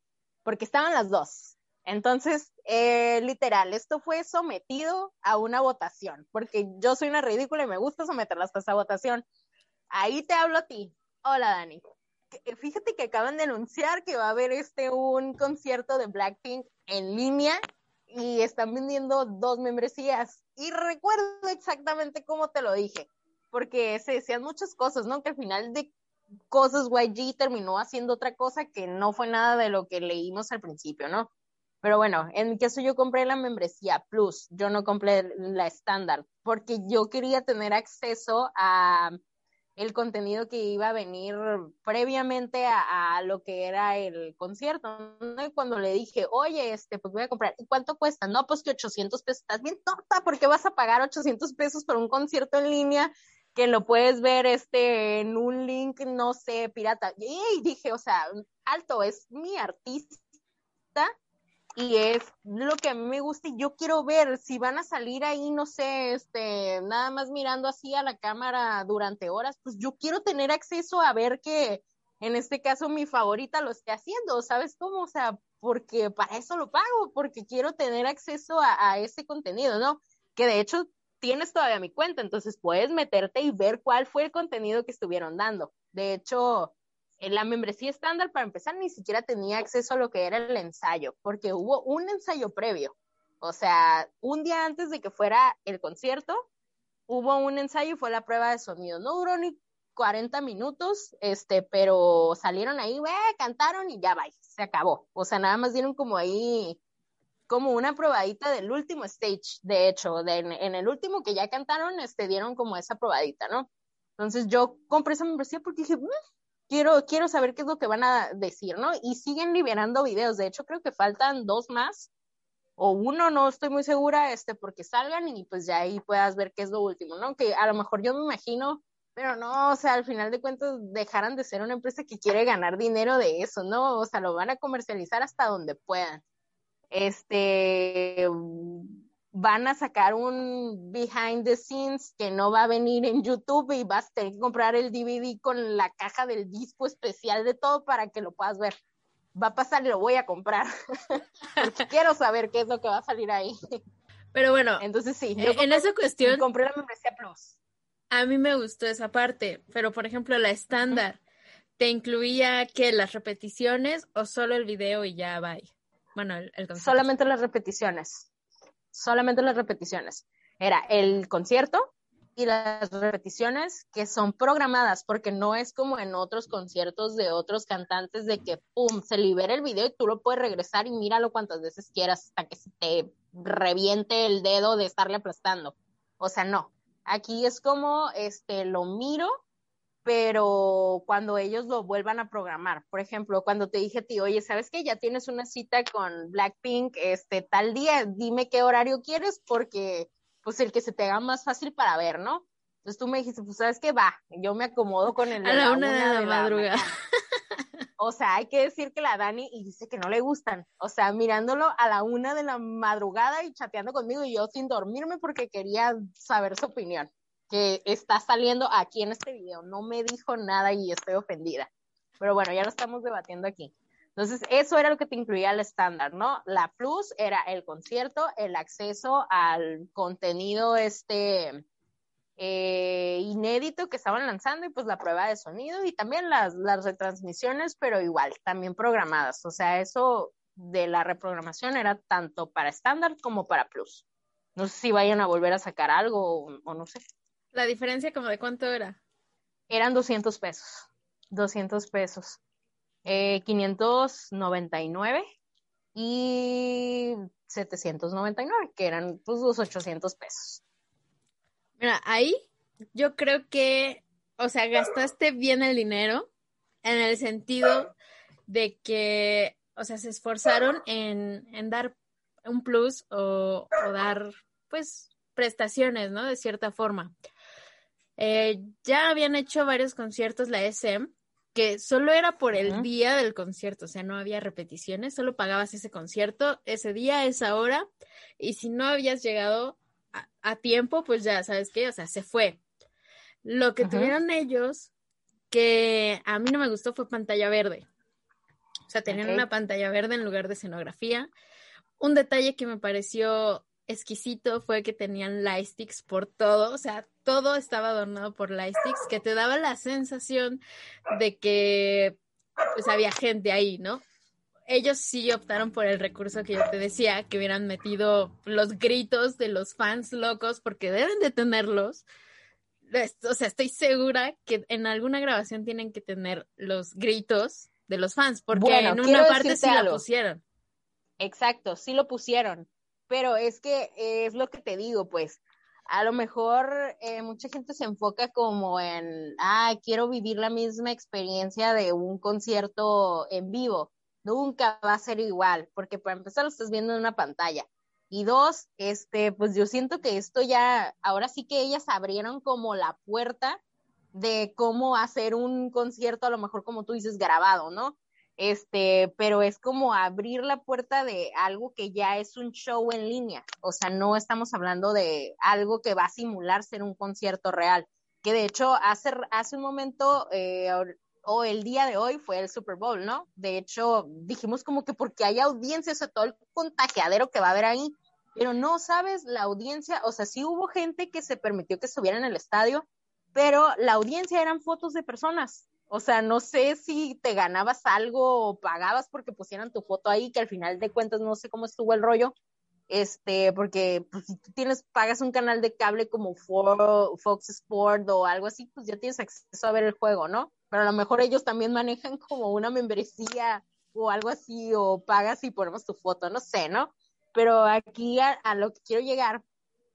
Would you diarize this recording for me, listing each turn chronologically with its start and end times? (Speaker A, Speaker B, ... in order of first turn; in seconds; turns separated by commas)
Speaker A: 0.5-9.2, Speaker A: 9.9-17.6, Speaker A: 18.1-25.9, Speaker A: 26.5-31.3, Speaker A: 31.8-39.2, Speaker A: 39.8-60.2, Speaker A: 61.8-96.5, Speaker A: 97.1-106.8, Speaker A: 107.5-116.0, Speaker A: 116.7-122.1, Speaker A: 122.8-136.2, Speaker A: 136.9-148.8, Speaker A: 149.3-153.6, Speaker B: 154.3-154.8, Speaker A: 154.8-157.6, Speaker B: 155.4-156.5, Speaker B: 158.1-161.2, Speaker B: 161.8-167.1, Speaker A: 166.8-168.3, Speaker A: 168.9-189.3, Speaker A: 190.1-207.0, Speaker B: 205.4-206.9, Speaker A: 208.0-231.6, Speaker A: 232.4-244.0, Speaker A: 244.6-247.0, Speaker B: 247.5-249.0, Speaker A: 249.7-252.4, Speaker A: 253.1-255.2, Speaker A: 255.9-260.6, Speaker B: 261.8-262.4, Speaker B: 262.9-266.3, Speaker B: 266.8-267.9, Speaker B: 268.5-271.9, Speaker B: 272.5-277.1, Speaker B: 278.2-287.9, Speaker B: 288.4-292.6, Speaker B: 293.4-294.9, Speaker A: 293.8-294.1, Speaker B: 295.5-297.9, Speaker B: 298.9-301.3, Speaker A: 299.1-299.4, Speaker B: 302.0-310.6, Speaker B: 311.1-312.2, Speaker B: 312.7-314.0, Speaker B: 314.7-322.1, Speaker B: 322.9-330.4, Speaker A: 328.5-330.0, Speaker A: 331.2-353.6, Speaker A: 354.1-392.3, Speaker A: 392.9-409.4